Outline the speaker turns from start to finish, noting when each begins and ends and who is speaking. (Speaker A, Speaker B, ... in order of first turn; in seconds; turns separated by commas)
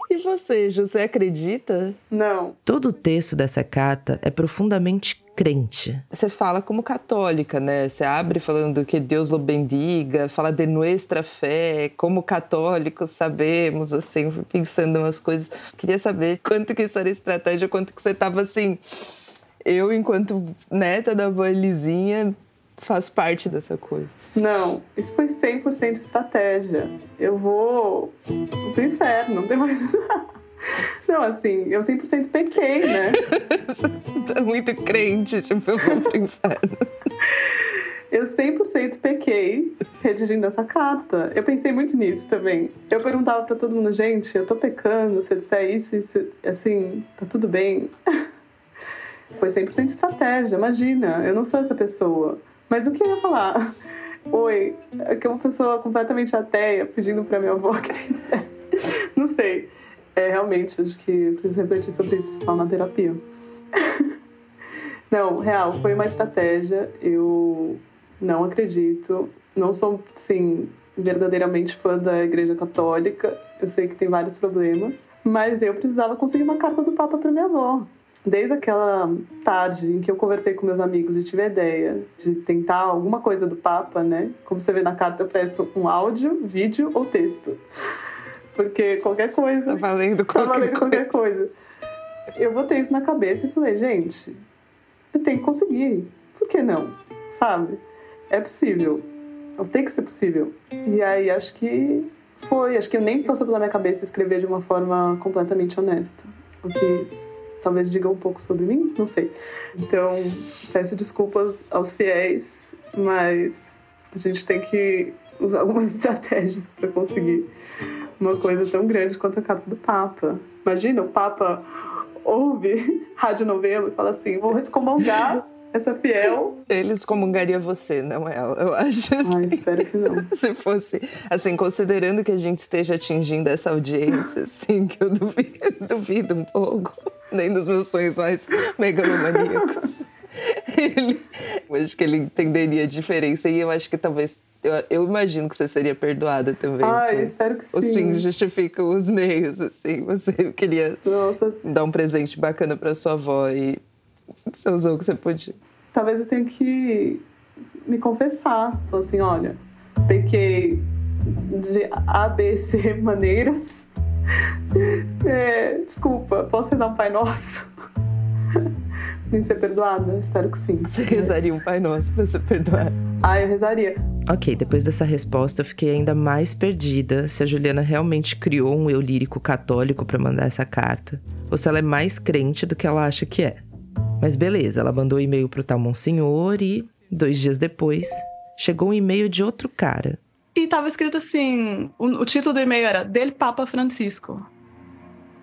Speaker A: 0.1-2.0, Speaker B: 2.1-2.6, Speaker C: 2.7-6.0, Speaker A: 6.1-18.8, Speaker A: 19.6-24.1, Speaker B: 24.4-28.1, Speaker B: 28.6-30.2, Speaker B: 31.0-33.2, Speaker A: 33.0-36.9, Speaker B: 38.1-47.9, Speaker B: 49.3-53.7, Speaker B: 54.3-63.2, Speaker B: 65.1-87.6, Speaker B: 88.5-91.5, Speaker A: 89.7-91.2, Speaker B: 92.3-94.4, Speaker B: 95.1-99.1, Speaker B: 99.6-107.1, Speaker B: 107.6-117.5, Speaker B: 118.2-121.7, Speaker B: 122.2-126.6, Speaker A: 126.7-151.0, Speaker B: 129.2-130.3, Speaker B: 146.8-148.2, Speaker B: 151.1-151.6, Speaker A: 151.6-153.8, Speaker A: 154.5-155.6, Speaker B: 155.9-157.2, Speaker B: 157.9-163.9, Speaker B: 164.8-167.7, Speaker B: 169.3-171.6, Speaker A: 170.9-172.9, Speaker B: 173.2-174.0, Speaker C: 174.3-183.6, Speaker C: 184.2-190.2, Speaker B: 190.6-194.5